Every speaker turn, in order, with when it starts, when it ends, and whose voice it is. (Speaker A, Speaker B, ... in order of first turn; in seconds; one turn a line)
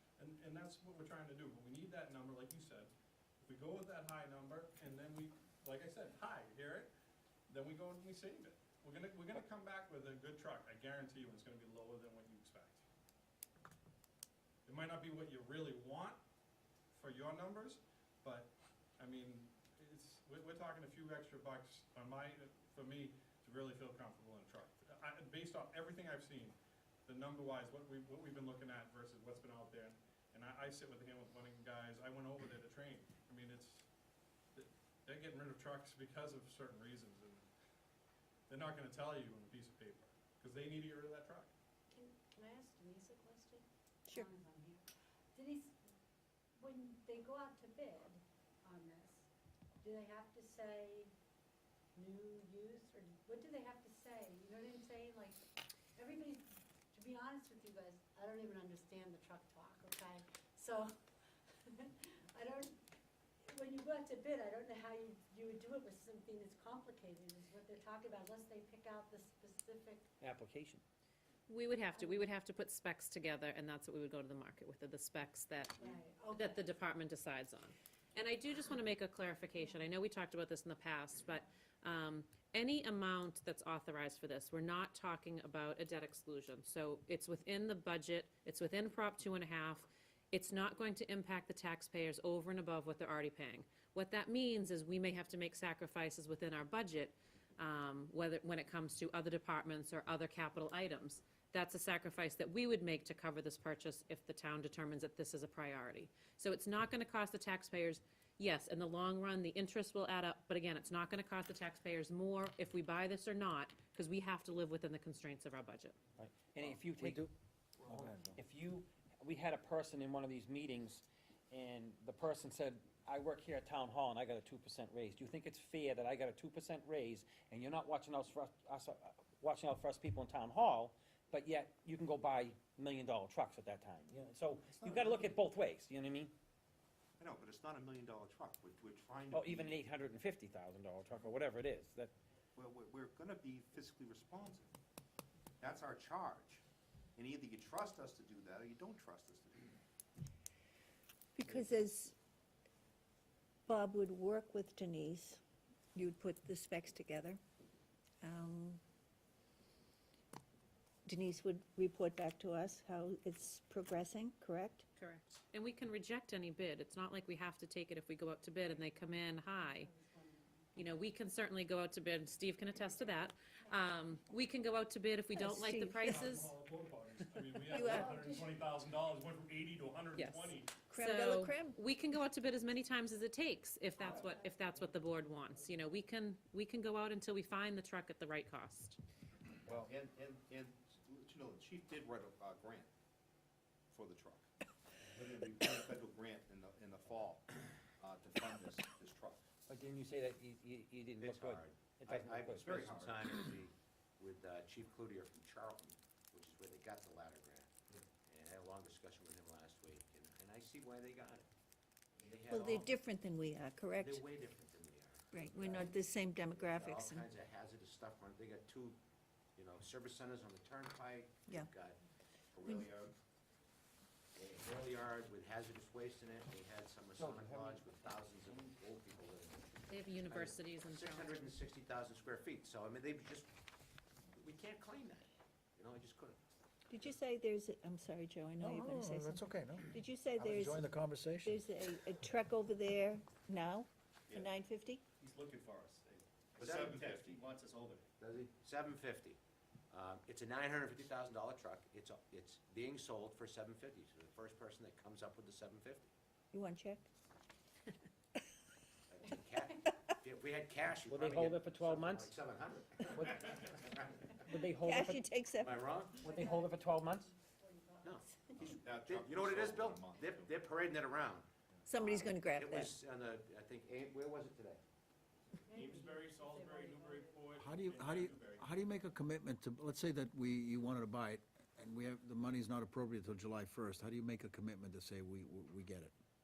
Speaker A: 0.2-6.9
Speaker A: 7.5-12.8
Speaker A: 14.7-16.2
Speaker A: 16.9-33.9
Speaker A: 34.5-37.5
Speaker A: 38.5-41.5
Speaker B: 41.9-45.7
Speaker B: 46.6-49.3
Speaker B: 49.8-51.1
Speaker B: 51.9-55.4
Speaker B: 56.0-60.9
Speaker B: 61.7-62.7
Speaker B: 63.5-70.1
Speaker C: 70.2-70.8
Speaker D: 71.5-116.0
Speaker B: 71.9-72.3
Speaker B: 75.8-76.6
Speaker C: 116.2-117.2
Speaker E: 116.7-117.3
Speaker C: 117.8-136.3
Speaker E: 117.9-118.4
Speaker F: 134.8-135.3
Speaker F: 137.2-139.8
Speaker C: 139.3-142.1
Speaker F: 142.6-144.7
Speaker F: 145.6-146.6
Speaker F: 147.2-149.8
Speaker G: 151.3-152.1
Speaker G: 153.7-155.4
Speaker G: 155.9-157.4
Speaker G: 158.2-158.8
Speaker G: 161.1-164.8
Speaker D: 165.0-169.9
Speaker B: 169.6-170.7
Speaker D: 170.7-176.5
Speaker G: 175.3-176.3
Speaker A: 176.0-180.7
Speaker G: 177.7-178.2
Speaker B: 177.8-178.4
Speaker D: 180.2-189.0
Speaker G: 180.9-181.8
Speaker B: 184.0-184.9
Speaker F: 189.7-192.9
Speaker F: 193.9-194.5
Speaker F: 195.1-197.4
Speaker F: 198.0-199.4
Speaker C: 199.7-202.9
Speaker H: 201.2-211.5
Speaker F: 202.5-203.3
Speaker H: 212.2-212.9
Speaker G: 212.4-214.3
Speaker H: 214.0-219.0
Speaker G: 215.3-217.2
Speaker H: 219.6-222.0
Speaker H: 222.5-222.8
Speaker F: 222.6-223.1
Speaker H: 224.3-233.5
Speaker C: 227.2-227.9
Speaker D: 229.9-231.5
Speaker H: 234.3-236.4
Speaker G: 236.9-240.9
Speaker E: 238.6-241.6
Speaker G: 241.4-245.0
Speaker I: 245.2-248.1
Speaker F: 246.6-247.5
Speaker H: 246.6-247.0
Speaker H: 248.2-249.4
Speaker H: 249.9-256.1
Speaker G: 256.5-257.0
Speaker H: 259.1-264.4
Speaker C: 261.1-262.3
Speaker C: 263.1-263.8
Speaker C: 264.4-265.3
Speaker G: 264.8-265.8
Speaker H: 265.6-266.3
Speaker C: 266.2-267.3
Speaker B: 266.2-268.6
Speaker H: 268.0-274.8
Speaker F: 268.6-270.6
Speaker G: 271.9-273.0
Speaker B: 275.7-277.5
Speaker I: 275.9-277.5
Speaker A: 277.1-278.3
Speaker E: 277.6-286.1
Speaker I: 278.1-278.6